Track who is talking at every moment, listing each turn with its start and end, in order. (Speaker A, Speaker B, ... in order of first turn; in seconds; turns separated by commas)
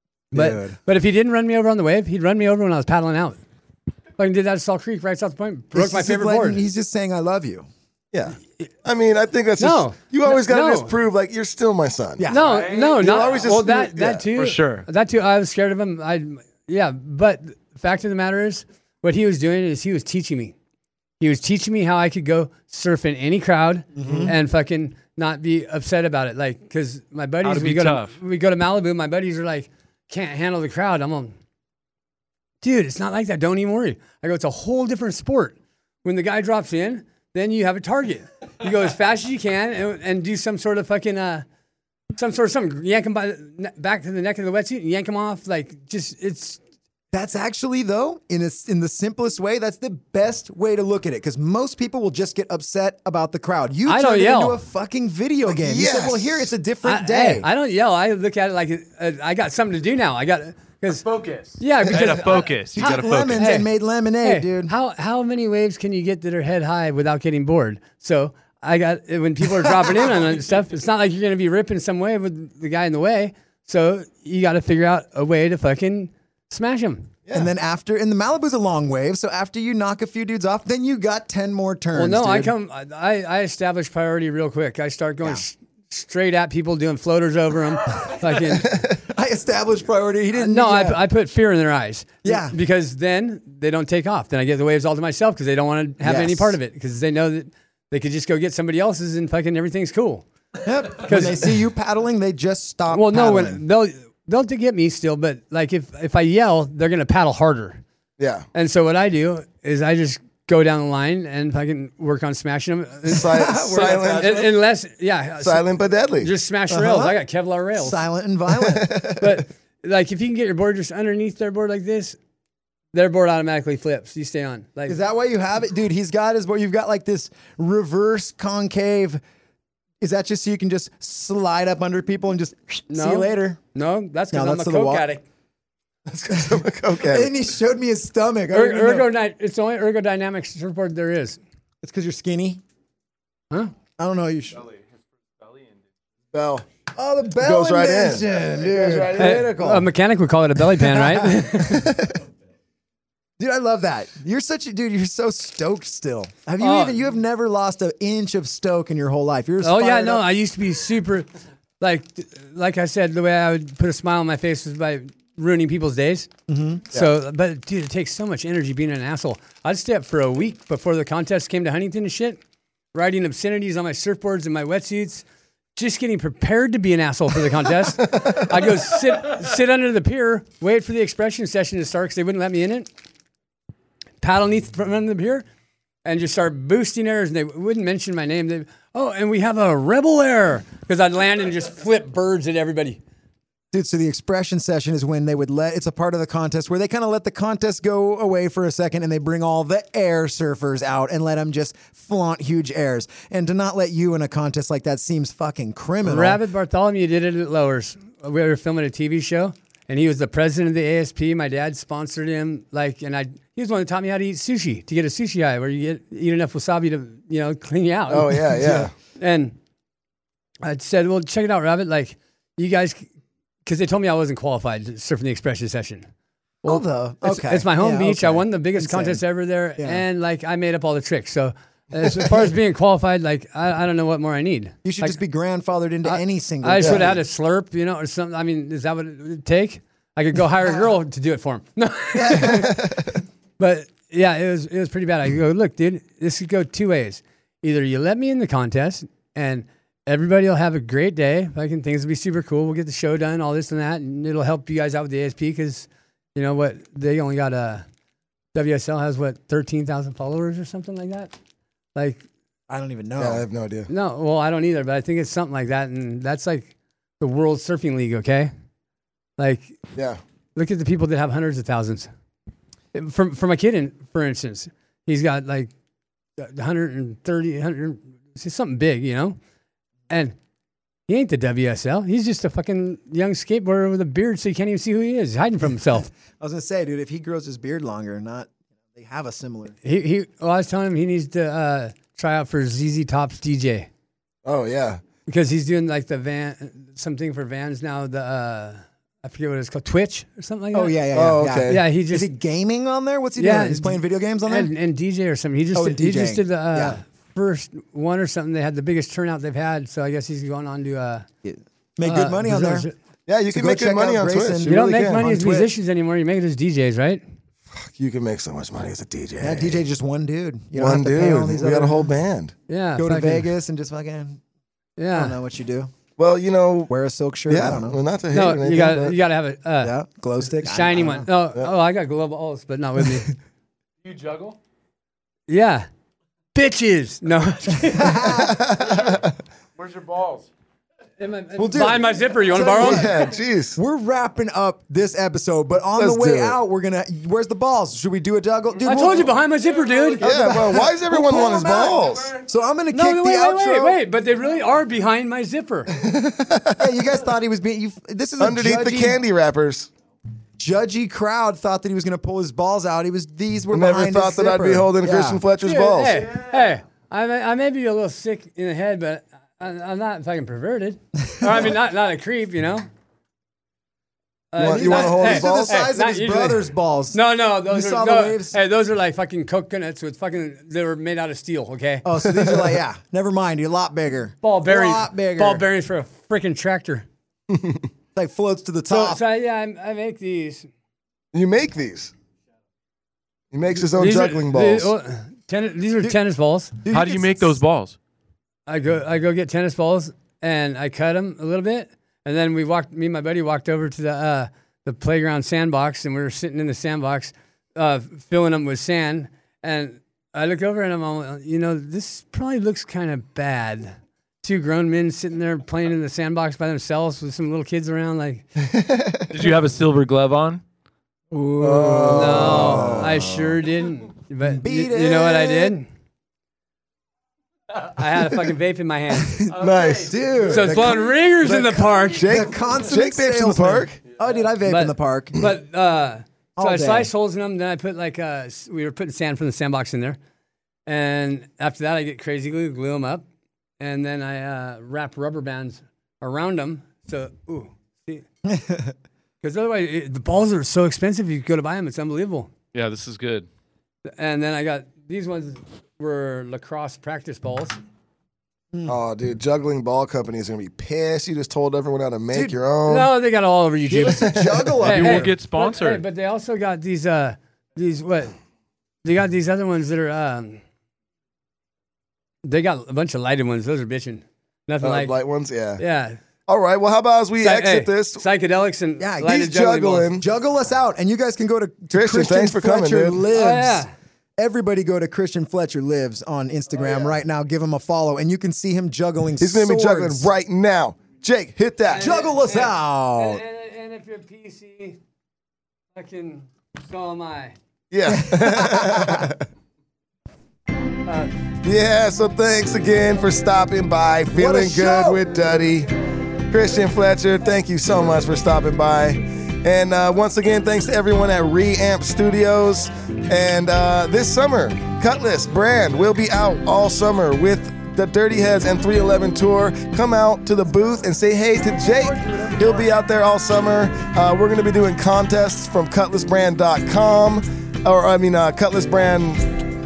Speaker A: 0.3-0.8, Speaker B: 0.3-3.4, Speaker B: 4.2-6.6, Speaker A: 5.7-7.7, Speaker C: 8.1-12.3, Speaker B: 9.6-11.0, Speaker A: 12.2-12.7, Speaker B: 12.3-20.5, Speaker D: 12.4-13.3, Speaker C: 12.9-14.3, Speaker D: 14.3-14.9, Speaker B: 21.2-31.3, Speaker A: 24.0-24.4, Speaker D: 27.4-28.2, Speaker B: 32.6-41.5, Speaker B: 42.1-46.6, Speaker A: 47.1-57.5, Speaker B: 53.9-54.6, Speaker C: 55.5-56.5, Speaker B: 56.9-61.1, Speaker D: 61.0-63.5, Speaker B: 61.6-63.7, Speaker A: 62.0-64.7, Speaker B: 64.2-77.1, Speaker A: 77.3-82.5, Speaker B: 82.0-88.7, Speaker A: 88.7-91.0, Speaker B: 90.4-100.3, Speaker A: 92.2-92.6, Speaker A: 96.0-96.6, Speaker A: 100.6-103.6, Speaker B: 101.0-101.5, Speaker B: 102.9-107.8, Speaker C: 108.2-108.5, Speaker B: 108.5-115.7, Speaker C: 113.1-114.6, Speaker A: 113.1-114.5, Speaker C: 115.4-116.3, Speaker B: 116.2-118.0, Speaker A: 116.7-117.2, Speaker A: 117.8-119.1, Speaker C: 118.6-119.2, Speaker B: 119.2-122.2, Speaker B: 122.9-125.0, Speaker A: 124.9-129.2, Speaker A: 130.0-133.6, Speaker B: 132.9-135.2, Speaker A: 134.3-135.1, Speaker C: 136.1-137.3, Speaker A: 136.3-139.1, Speaker B: 138.5-141.4, Speaker A: 141.8-142.6, Speaker A: 144.0-144.7, Speaker D: 145.4-145.7, Speaker C: 146.3-146.7, Speaker A: 147.0-149.9, Speaker C: 147.4-149.4, Speaker B: 149.2-152.1, Speaker A: 150.7-152.1, Speaker A: 153.4-160.3, Speaker B: 156.6-157.0, Speaker B: 159.6-161.3, Speaker B: 161.8-166.3, Speaker A: 166.5-166.8, Speaker B: 166.9-172.4, Speaker B: 172.9-175.2, Speaker B: 175.8-182.9, Speaker B: 184.2-185.4, Speaker B: 186.1-193.0, Speaker A: 193.7-206.4, Speaker B: 206.1-219.6, Speaker C: 218.1-218.9, Speaker B: 220.6-223.1, Speaker B: 223.7-226.1, Speaker A: 226.6-229.2, Speaker B: 226.7-235.2, Speaker A: 229.8-230.0, Speaker A: 234.8-237.2, Speaker B: 236.0-242.9, Speaker C: 236.8-237.1, Speaker A: 242.2-243.0, Speaker B: 243.6-257.8, Speaker B: 258.5-261.3, Speaker B: 261.9-262.2, Speaker A: 262.7-263.4, Speaker C: 263.2-263.9, Speaker B: 263.9-268.5, Speaker B: 269.4-269.7, Speaker C: 269.9-270.2, Speaker B: 270.6-272.1, Speaker B: 272.9-275.7, Speaker B: 276.4-279.4, Speaker B: 280.1-280.4, Speaker B: 281.1-286.1, Speaker A: 286.3-289.8, Speaker B: 289.8-293.9, Speaker C: 294.4-295.0, Speaker B: 295.3-301.0, Speaker A: 300.7-304.7, Speaker C: 301.1-301.8, Speaker B: 301.7-302.3, Speaker B: 303.4-311.3, Speaker A: 305.8-307.0, Speaker A: 311.4-312.9, Speaker B: 312.1-312.9, Speaker C: 313.3-315.2, Speaker A: 313.5-315.7, Speaker B: 314.7-317.2, Speaker C: 317.7-319.8, Speaker A: 319.4-322.2, Speaker C: 320.8-322.5, Speaker B: 322.7-323.5, Speaker A: 323.0-324.4, Speaker B: 325.0-325.4, Speaker A: 325.1-325.9, Speaker C: 326.2-326.9, Speaker A: 326.9-328.0, Speaker C: 327.5-329.1, Speaker B: 328.3-329.9, Speaker A: 329.8-331.3, Speaker B: 330.5-333.3, Speaker D: 334.0-334.6, Speaker B: 335.5-335.9, Speaker B: 336.5-338.5, Speaker A: 337.8-338.8, Speaker C: 338.5-338.8, Speaker D: 339.8-340.5, Speaker B: 341.2-343.1, Speaker A: 341.6-349.4, Speaker C: 342.6-343.8, Speaker C: 346.0-346.6, Speaker B: 348.8-350.3, Speaker D: 349.6-350.2, Speaker A: 350.2-354.0, Speaker C: 350.2-352.4, Speaker B: 352.9-355.9, Speaker C: 356.0-356.8, Speaker A: 356.8-359.2, Speaker C: 358.4-359.9, Speaker A: 360.6-365.4, Speaker C: 363.7-366.3, Speaker B: 365.6-372.9, Speaker A: 371.4-371.7, Speaker B: 374.5-382.1, Speaker C: 374.6-375.8, Speaker A: 374.6-378.6, Speaker A: 382.1-385.7, Speaker C: 382.4-382.7, Speaker B: 384.4-387.1, Speaker C: 387.5-387.8, Speaker A: 388.1-389.2, Speaker B: 388.9-390.7, Speaker C: 391.3-392.1, Speaker C: 393.5-394.9, Speaker B: 393.8-396.8, Speaker A: 396.8-397.6, Speaker D: 396.9-398.0, Speaker B: 398.7-418.5, Speaker D: 419.3-420.6, Speaker A: 421.3-423.3, Speaker C: 421.6-423.4, Speaker B: 422.1-425.9, Speaker A: 424.4-425.8, Speaker B: 428.0-429.5, Speaker A: 429.2-435.4, Speaker D: 429.5-430.5, Speaker C: 429.6-434.0, Speaker B: 430.4-432.3, Speaker B: 434.6-440.2, Speaker A: 436.6-437.1, Speaker B: 440.9-443.2, Speaker B: 443.8-448.2, Speaker A: 448.5-448.9, Speaker B: 449.4-452.5, Speaker D: 452.7-453.5, Speaker B: 454.2-457.8, Speaker C: 458.9-463.1, Speaker A: 462.3-462.6, Speaker B: 462.9-468.4, Speaker A: 463.8-465.3, Speaker C: 464.1-464.8, Speaker D: 464.8-466.0, Speaker B: 469.0-470.6, Speaker B: 472.4-475.1, Speaker C: 474.8-475.8, Speaker B: 475.8-476.2, Speaker C: 476.5-478.2, Speaker B: 477.4-480.2, Speaker A: 479.0-479.4, Speaker C: 479.2-480.2, Speaker A: 480.2-483.9, Speaker C: 481.9-483.2, Speaker B: 483.3-483.9, Speaker A: 484.4-490.3, Speaker C: 489.4-492.1, Speaker B: 491.9-495.0, Speaker A: 492.0-493.4, Speaker B: 495.9-497.6, Speaker C: 497.9-499.4, Speaker A: 498.0-499.3, Speaker B: 501.1-501.3, Speaker C: 501.6-505.9, Speaker A: 504.3-505.2, Speaker C: 506.5-529.5